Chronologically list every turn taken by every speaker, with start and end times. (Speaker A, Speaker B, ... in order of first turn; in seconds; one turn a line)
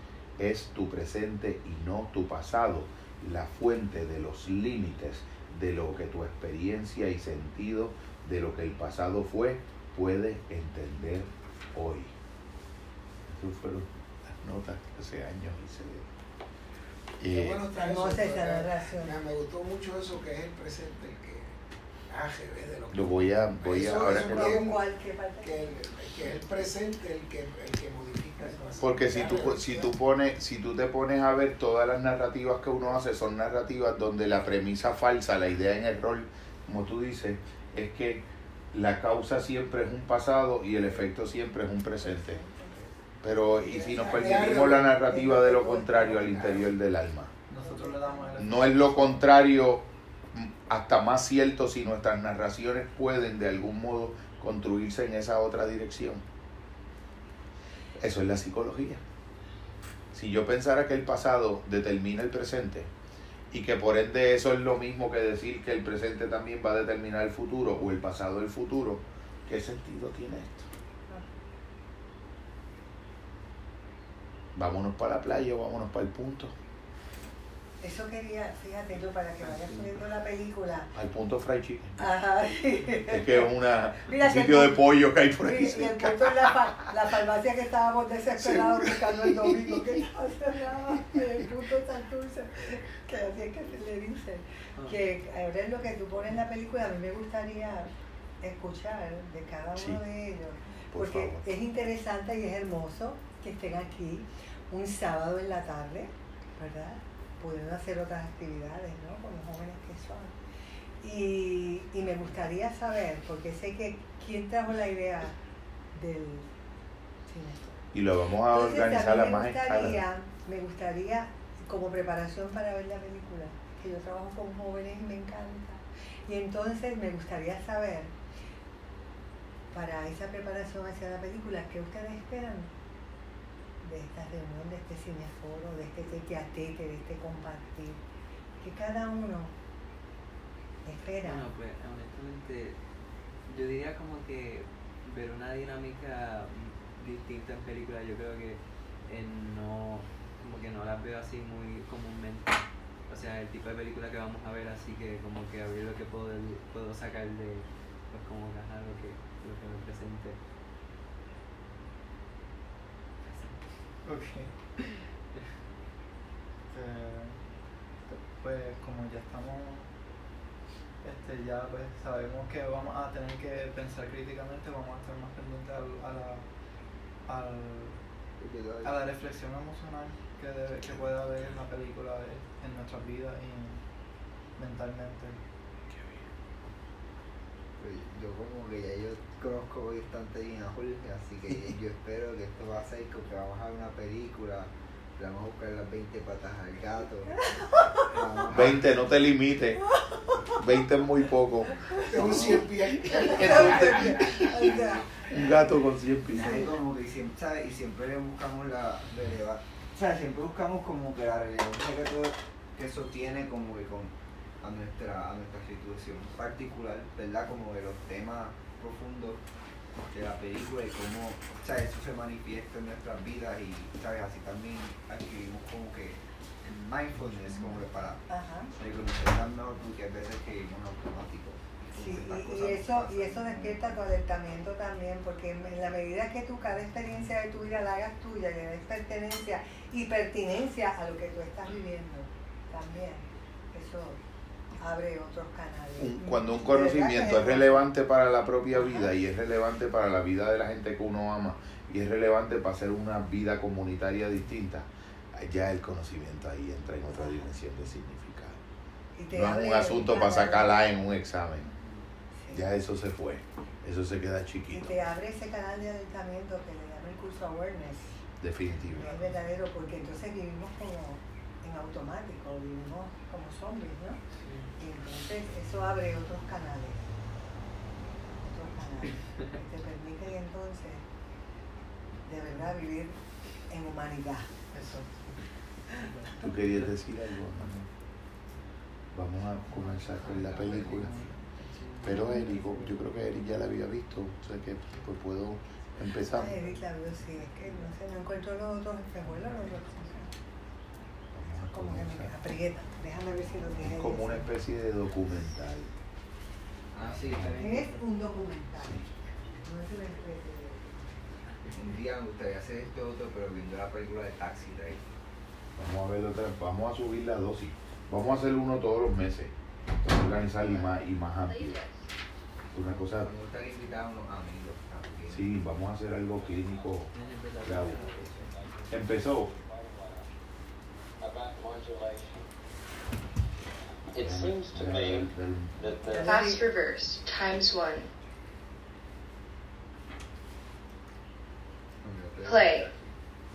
Speaker A: 0.4-12.1
Speaker A: 13.3-16.1
Speaker A: 17.2-17.6
Speaker B: 17.3-21.6
Speaker C: 17.8-19.1
Speaker B: 22.1-24.8
Speaker A: 22.9-24.6
Speaker C: 24.1-25.6
Speaker B: 25.4-29.9
Speaker C: 28.4-28.8
Speaker A: 28.8-42.4
Speaker C: 42.0-42.8
Speaker A: 43.2-47.3
Speaker B: 43.5-46.6
Speaker C: 45.0-46.5
Speaker D: 47.5-49.3
Speaker C: 47.5-48.4
Speaker A: 48.4-56.2
Speaker A: 58.0-59.0
Speaker A: 60.1-62.9
Speaker A: 63.5-70.7
Speaker A: 74.5-76.5
Speaker C: 77.8-80.9
Speaker A: 80.9-82.1
Speaker C: 82.0-84.8
Speaker A: 83.0-86.9
Speaker C: 85.4-110.3
Speaker A: 88.4-89.8
Speaker A: 99.8-100.0
Speaker A: 100.9-101.5
Speaker C: 111.0-115.4
Speaker C: 115.9-116.5
Speaker C: 117.3-117.8
Speaker A: 117.9-120.0
Speaker C: 118.5-128.1
Speaker C: 129.7-132.7
Speaker C: 133.8-138.0
Speaker C: 138.6-139.5
Speaker C: 140.8-141.5
Speaker E: 141.2-142.8
Speaker E: 143.5-160.4
Speaker E: 163.3-163.6
Speaker D: 164.0-164.9
Speaker D: 166.7-167.5
Speaker D: 168.1-169.9
Speaker D: 171.0-176.5
Speaker D: 177.3-178.1
Speaker F: 178.4-179.0
Speaker D: 178.8-183.8
Speaker D: 184.6-185.4
Speaker A: 185.9-186.3
Speaker F: 187.8-197.5
Speaker C: 197.6-198.0
Speaker F: 198.0-198.9
Speaker A: 198.5-200.0
Speaker A: 200.5-206.8
Speaker B: 202.0-205.3
Speaker C: 203.1-205.1
Speaker F: 206.3-219.4
Speaker F: 220.1-228.2
Speaker C: 228.3-228.7
Speaker F: 228.8-234.0
Speaker C: 231.9-244.2
Speaker C: 244.8-247.8
Speaker A: 246.0-258.6
Speaker C: 248.7-249.1
Speaker C: 257.1-257.6
Speaker C: 259.2-260.9
Speaker A: 259.3-261.7
Speaker A: 262.5-265.0
Speaker C: 264.7-268.2
Speaker A: 268.4-269.2
Speaker C: 268.9-274.2
Speaker C: 274.8-277.1
Speaker C: 278.4-281.0
Speaker C: 282.3-283.2
Speaker C: 283.7-284.5
Speaker D: 284.7-285.4
Speaker D: 286.0-286.8
Speaker A: 286.4-287.9
Speaker A: 289.1-291.2
Speaker D: 289.7-292.9
Speaker A: 292.0-296.6
Speaker C: 296.3-300.3
Speaker A: 301.3-302.4
Speaker C: 301.5-304.5
Speaker A: 303.8-305.9
Speaker F: 306.9-308.1
Speaker A: 307.2-307.6
Speaker C: 307.6-309.1
Speaker A: 308.8-309.1
Speaker C: 309.6-311.0
Speaker F: 311.7-315.0
Speaker A: 315.8-321.8
Speaker F: 320.6-320.9
Speaker G: 321.4-322.0
Speaker A: 322.7-323.3
Speaker F: 322.8-325.5
Speaker A: 325.3-327.1
Speaker H: 326.3-327.1
Speaker E: 327.1-328.5
Speaker A: 327.6-328.1
Speaker H: 327.7-330.3
Speaker A: 328.9-329.5
Speaker H: 331.2-332.5
Speaker H: 334.1-336.5
Speaker A: 334.2-335.9
Speaker C: 336.1-336.7
Speaker G: 336.2-338.1
Speaker F: 342.0-342.7
Speaker G: 342.5-342.9